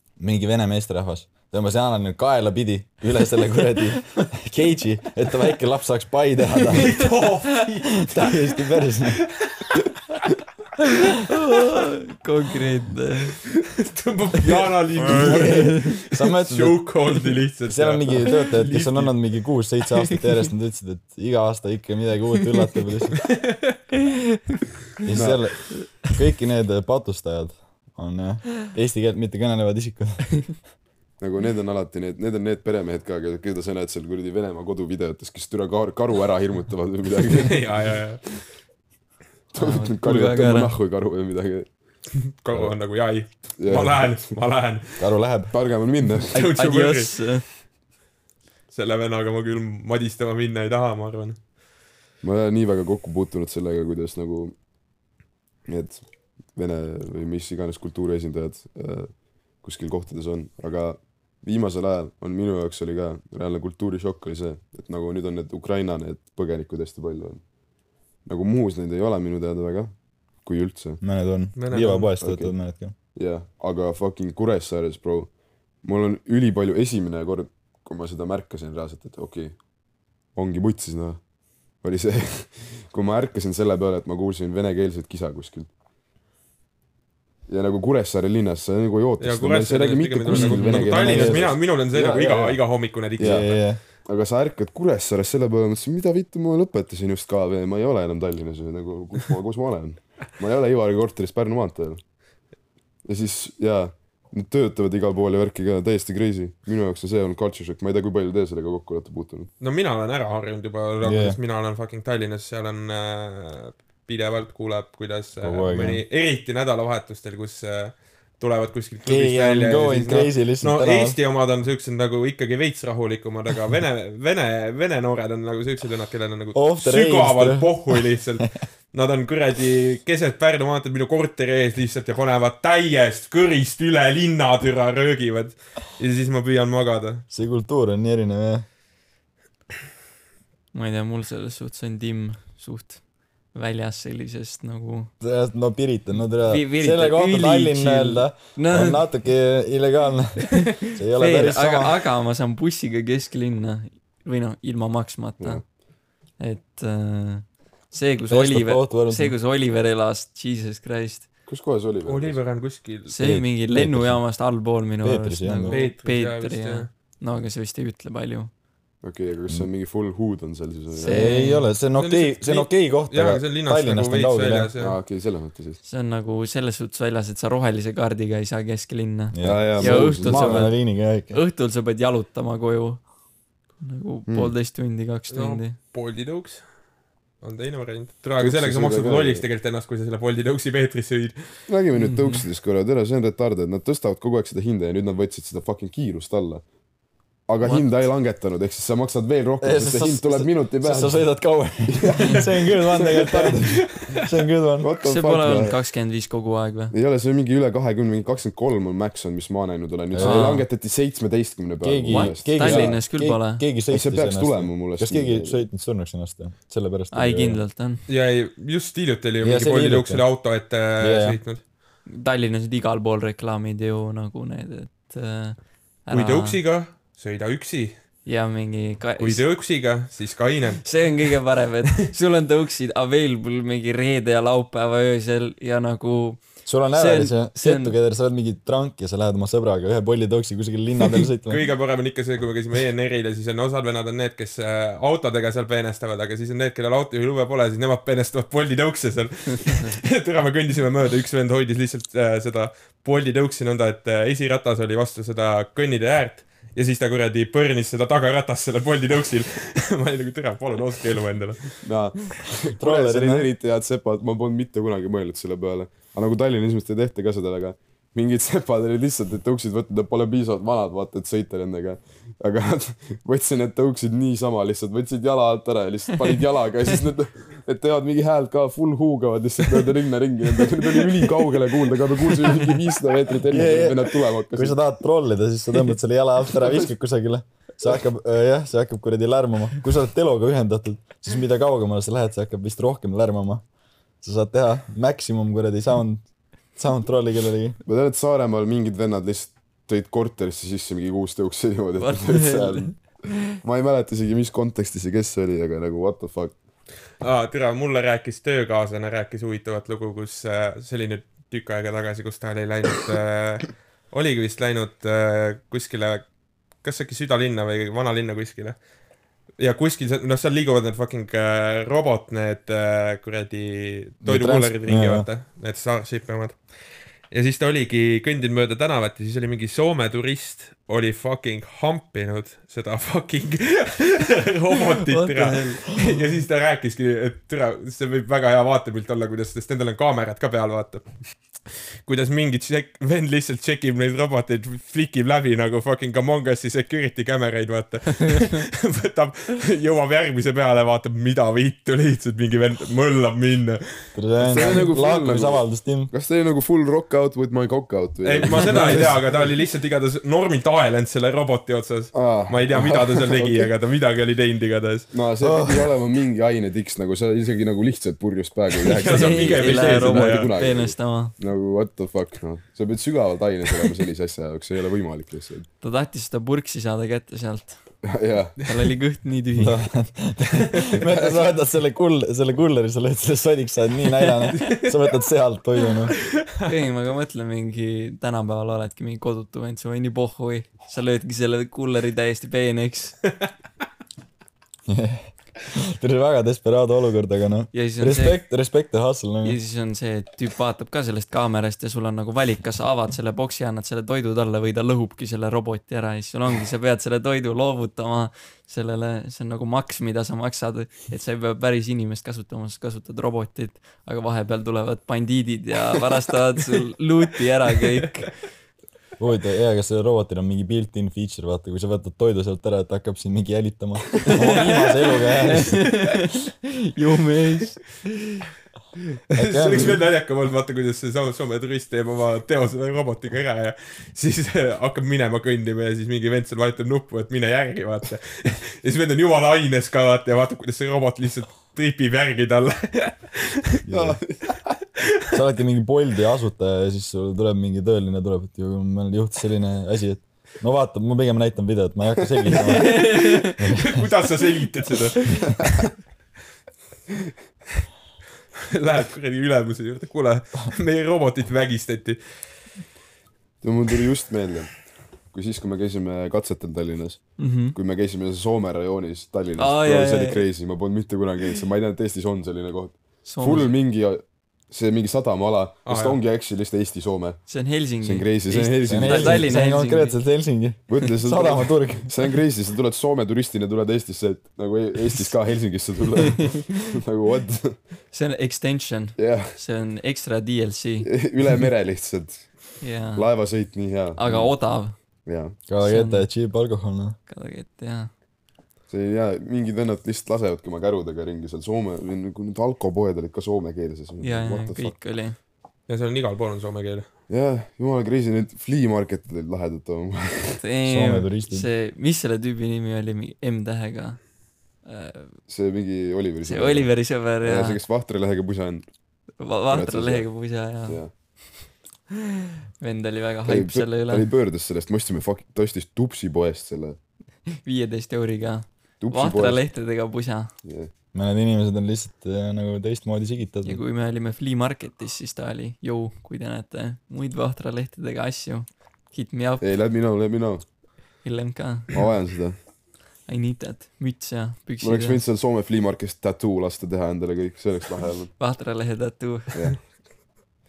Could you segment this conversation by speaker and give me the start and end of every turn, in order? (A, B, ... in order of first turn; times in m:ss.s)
0:00.2-0:07.2 A
0:06.7-0:08.4 B
0:08.0-0:09.3 A
0:09.4-0:09.8 B
0:11.3-0:13.4 C
0:13.8-0:19.3 B
0:14.6-0:16.0 C
0:15.0-0:17.0 A
0:17.7-0:23.3 A
0:25.0-0:30.6 A
0:25.1-0:25.5 D
0:31.2-0:38.0 D
0:37.3-0:38.4 B
0:39.5-0:41.7 D
0:39.6-0:40.7 C
0:42.4-0:45.0 B
0:43.6-0:44.3 D
0:45.0-0:45.5 A
0:45.5-0:46.3 D
0:46.2-0:47.2 B
0:46.3-0:47.4 C
0:48.7-0:51.4 B
0:52.2-0:54.5 D
0:55.6-1:07.4 D
1:08.2-1:11.0 D
1:11.0-1:12.9 A
1:11.5-1:12.1 B
1:12.2-1:12.5 D
1:13.1-1:19.6 D
1:20.3-1:25.7 D
1:27.5-1:32.6 D
1:29.2-1:33.6 B
1:30.3-1:31.5 A
1:33.2-1:33.5 D
1:33.2-1:33.8 A
1:34.0-1:42.0 D
1:43.0-1:49.5 D
1:49.6-2:17.2 B
1:51.0-1:51.4 A
1:55.4-1:56.0 A
1:59.0-2:01.2 A
2:06.5-2:08.2 A
2:17.3-2:18.6 A
2:20.7-2:25.1 C
2:25.2-2:32.0 A
2:26.4-2:29.1 C
2:31.1-2:41.3 C
2:38.3-2:39.3 A
2:41.5-2:42.4 D
2:42.0-2:43.1 B
2:43.1-2:48.5 C
2:43.2-2:44.3 A
2:45.0-2:45.8 A
2:45.7-2:46.9 B
2:49.0-2:51.4 D
2:50.9-2:51.7 C
2:51.0-2:54.7 A
2:51.9-2:55.0 B
2:54.8-2:55.8 D
2:55.8-3:03.1 C
2:59.3-3:01.4 A
2:59.4-3:00.7 D
3:03.8-3:05.8 C
3:04.3-3:04.5 D
3:05.3-3:06.7 B
3:07.4-3:11.4 B
3:08.4-3:09.4 D
3:11.7-3:16.7 D
3:12.0-3:12.4 C
3:17.4-3:24.2 D
3:19.6-3:24.9 A
3:23.6-3:24.2 B
3:24.8-3:25.7 D
3:25.0-3:26.9 C
3:26.9-3:33.0 D
3:30.1-3:30.6 A
3:30.2-3:30.6 C
3:31.8-3:37.6 A
3:32.1-3:33.6 C
3:33.9-3:35.6 D
3:37.1-3:38.0 C
3:38.1-3:41.6 B
3:39.4-3:40.3 A
3:41.0-3:41.4 A
3:42.1-3:46.6 C
3:46.1-3:48.0 B
3:48.2-3:49.4 C
3:49.2-3:51.2 B
3:50.8-3:57.9 C
3:56.6-4:01.6 A
4:01.5-4:21.8 B
4:21.8-4:44.8 D
4:22.7-4:23.5 A
4:43.5-4:53.6 A
4:54.2-4:57.8 A
4:57.8-5:06.6 D
5:02.0-5:03.2 C
5:07.2-5:16.3 B
5:16.8-5:18.8 B
5:19.6-5:26.6 B
5:24.2-5:25.3 A
5:27.3-5:41.1 B
5:35.0-5:36.1 C
5:41.6-5:53.9 B
5:54.1-5:56.1 A
5:54.4-5:59.4 D
5:54.5-5:54.8 B
5:58.2-6:05.1 B
6:02.1-6:03.7 D
6:05.1-6:15.7 D
6:05.4-6:05.9 A
6:08.8-6:10.5 B
6:09.0-6:11.4 C
6:15.8-6:17.9 C
6:18.0-6:18.6 D
6:18.6-6:19.9 C
6:19.6-6:26.2 A
6:21.0-6:21.4 D
6:24.7-6:24.9 B
6:26.6-6:33.2 C
6:34.9-6:39.6 A
6:37.7-6:38.4 C
6:39.4-6:58.4 C
6:59.2-7:06.1 A
7:04.4-7:08.0 C
7:04.4-7:04.9 B
7:09.3-7:10.0 A
7:09.3-7:23.8 B
7:23.8-7:24.2 A
7:23.9-7:24.5 D
7:25.3-7:34.0 A
7:32.7-7:33.6 C
7:32.8-7:35.8 B
7:38.7-7:42.7 B
7:43.6-7:59.5 D
7:47.4-7:47.8 C
7:49.6-7:50.5 C
7:53.2-7:53.7 C
7:55.8-7:56.2 B
7:57.5-8:00.2 C
7:58.8-8:02.1 A
8:00.9-8:07.8 D
8:08.1-8:11.1 C
8:09.2-8:09.6 D
8:11.0-8:15.6 D
8:12.8-8:13.6 C
8:14.2-8:15.0 C
8:15.7-8:17.2 A
8:15.8-8:16.3 C
8:17.3-8:18.1 C
8:18.9-8:25.0 D
8:24.2-8:25.4 C
8:25.9-8:27.0 B
8:27.3-8:30.6 D
8:30.6-8:35.4 C
8:30.8-8:31.7 A
8:35.5-8:38.9 D
8:36.4-8:37.8 C
8:39.4-8:41.4 C
8:39.7-8:40.3 D
8:40.8-8:41.1 D
8:42.8-8:44.3 C
8:43.4-8:47.0 D
8:47.5-8:50.5 C
8:49.0-8:49.6 D
8:50.6-8:50.9 D
8:51.1-8:53.8 A
8:53.6-8:59.6 C
8:59.6-9:00.6 D
9:01.2-9:02.1 C
9:01.9-9:02.6 D
9:03.2-9:05.2 C
9:04.8-9:08.3 D
9:08.4-9:09.7 C
9:09.5-9:09.9 D